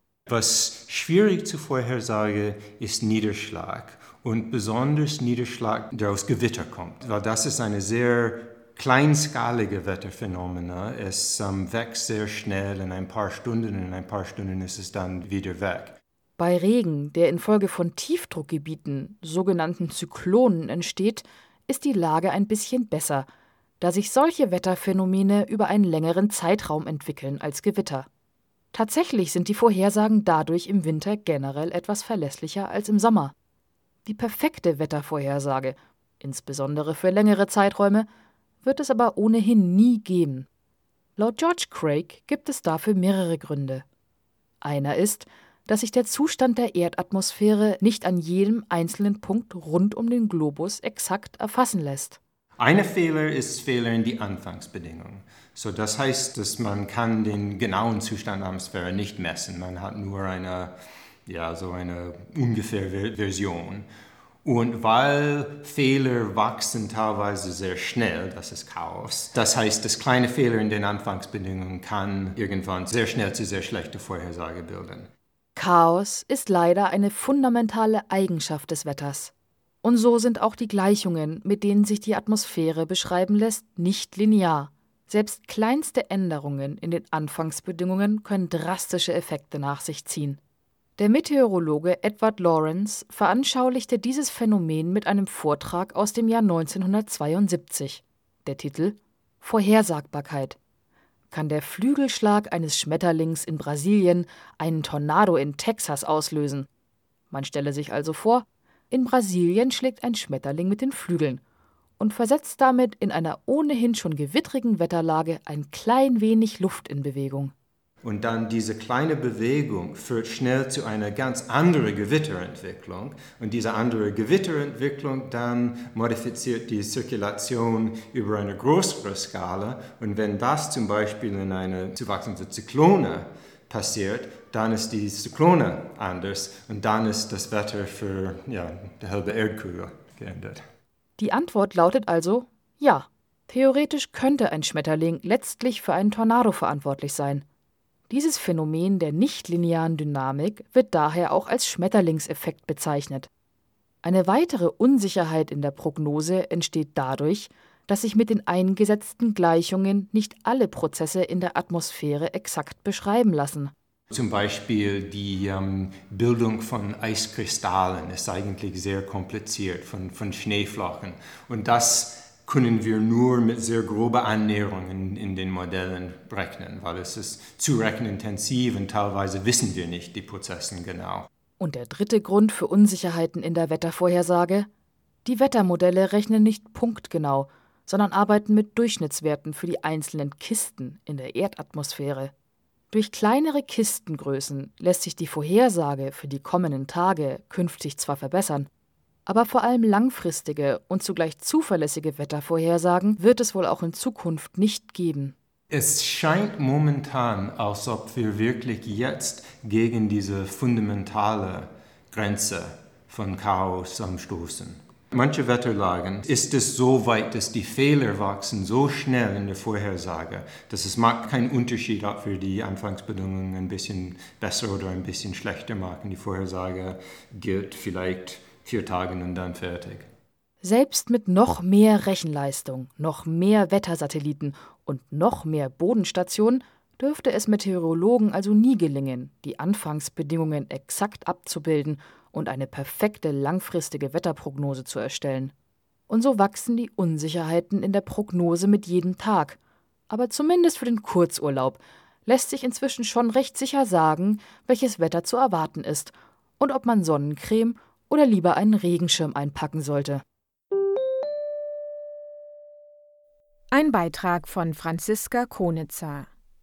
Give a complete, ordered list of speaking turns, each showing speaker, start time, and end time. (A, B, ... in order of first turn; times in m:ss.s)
0:00.3-0:16.0 A
0:16.4-0:23.3 B
0:23.8-0:28.1 B
0:28.7-0:33.4 B
0:34.1-0:38.1 B
0:38.6-0:40.5 B
0:41.2-0:43.8 B
0:44.6-0:52.2 B
0:52.6-1:00.7 A
1:01.3-1:03.9 A
1:04.4-1:15.1 A
1:15.6-1:30.4 B
1:31.0-1:40.6 B
1:41.3-1:46.7 B
1:47.3-1:51.4 B
1:52.0-1:57.5 B
1:58.0-2:20.6 A
2:21.2-2:27.4 B
2:28.1-2:33.3 B
2:34.0-2:43.7 B
2:44.1-3:01.3 A
3:01.6-3:04.7 B
3:05.2-3:12.3 B
3:12.9-3:18.7 B
3:19.3-3:25.4 B
3:25.7-3:50.1 A
3:50.6-4:05.5 B
4:06.1-4:09.6 B
4:10.1-4:20.2 B
4:23.7-4:26.3 C